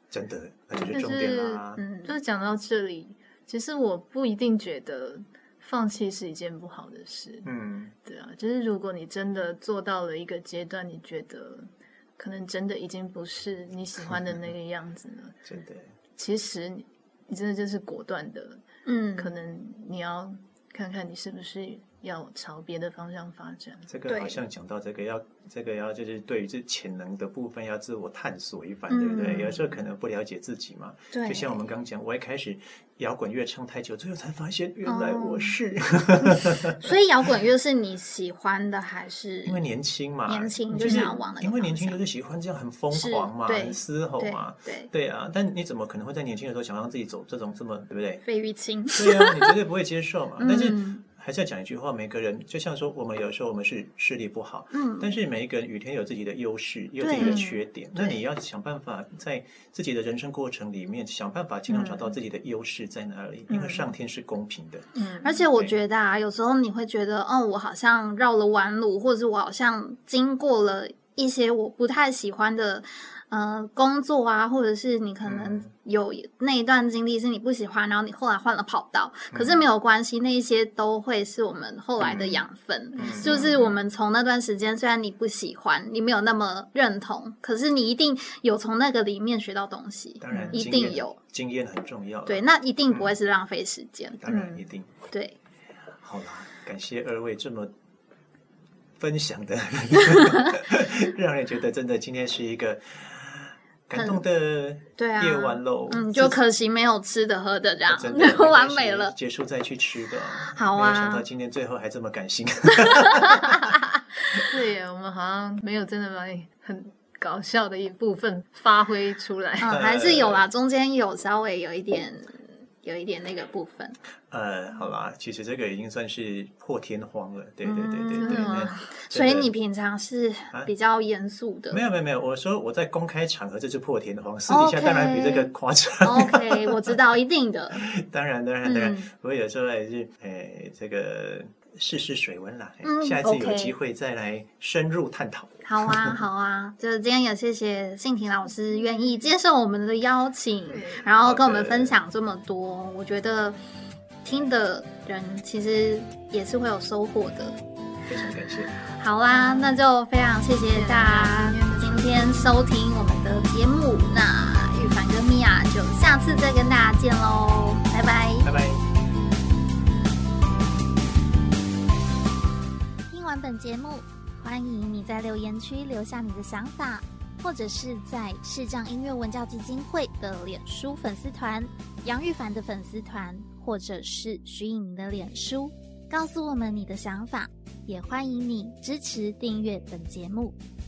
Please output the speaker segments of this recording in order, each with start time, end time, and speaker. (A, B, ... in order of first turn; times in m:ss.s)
0:00.1-0:01.8 A
0:00.7-0:07.5 B
0:01.8-0:02.1 C
0:07.4-0:07.9 A
0:08.0-0:15.4 B
0:15.4-0:15.9 A
0:16.2-0:18.6 B
0:18.8-0:19.3 C
0:19.2-0:23.9 B
0:23.9-0:36.9 A
0:24.1-0:24.4 C
0:28.9-0:29.6 C
0:31.1-0:31.6 C
0:34.8-0:35.5 C
0:36.2-0:39.6 C
0:39.4-0:48.2 A
0:40.3-0:42.0 C
0:42.9-0:44.9 C
0:48.2-0:49.5 C
0:48.9-1:04.9 A
0:50.4-0:51.0 C
0:54.7-0:55.1 C
0:57.0-0:57.4 C
0:57.2-0:57.6 B
0:57.9-0:58.2 C
1:03.5-1:03.9 B
1:05.0-1:05.4 B
1:05.2-1:31.2 C
1:15.2-1:15.7 A
1:19.3-1:19.6 A
1:22.0-1:22.3 A
1:23.0-1:23.8 A
1:30.2-1:33.1 A
1:30.3-1:30.6 B
1:32.2-1:34.2 C
1:34.2-1:34.9 A
1:34.2-1:34.6 B
1:35.1-1:35.4 C
1:36.0-1:37.7 A
1:39.0-1:46.4 A
1:43.9-1:44.2 C
1:45.0-1:49.1 C
1:47.9-1:53.8 A
1:50.5-1:51.2 C
1:54.3-1:59.7 B
1:59.6-2:04.0 C
1:59.7-2:00.4 A
2:04.3-2:09.5 A
2:07.6-2:11.8 C
2:08.2-2:08.8 B
2:11.7-2:17.0 A
2:14.5-2:17.8 C
2:17.7-2:26.2 A
2:18.6-2:19.1 C
2:22.8-2:23.7 C
2:25.6-2:33.6 C
2:30.7-2:31.1 B
2:31.2-2:32.0 A
2:34.2-2:37.6 C
2:38.1-2:38.8 A
2:39.0-2:48.5 C
2:40.7-2:42.4 B
2:48.4-2:48.8 A
2:53.1-3:10.6 C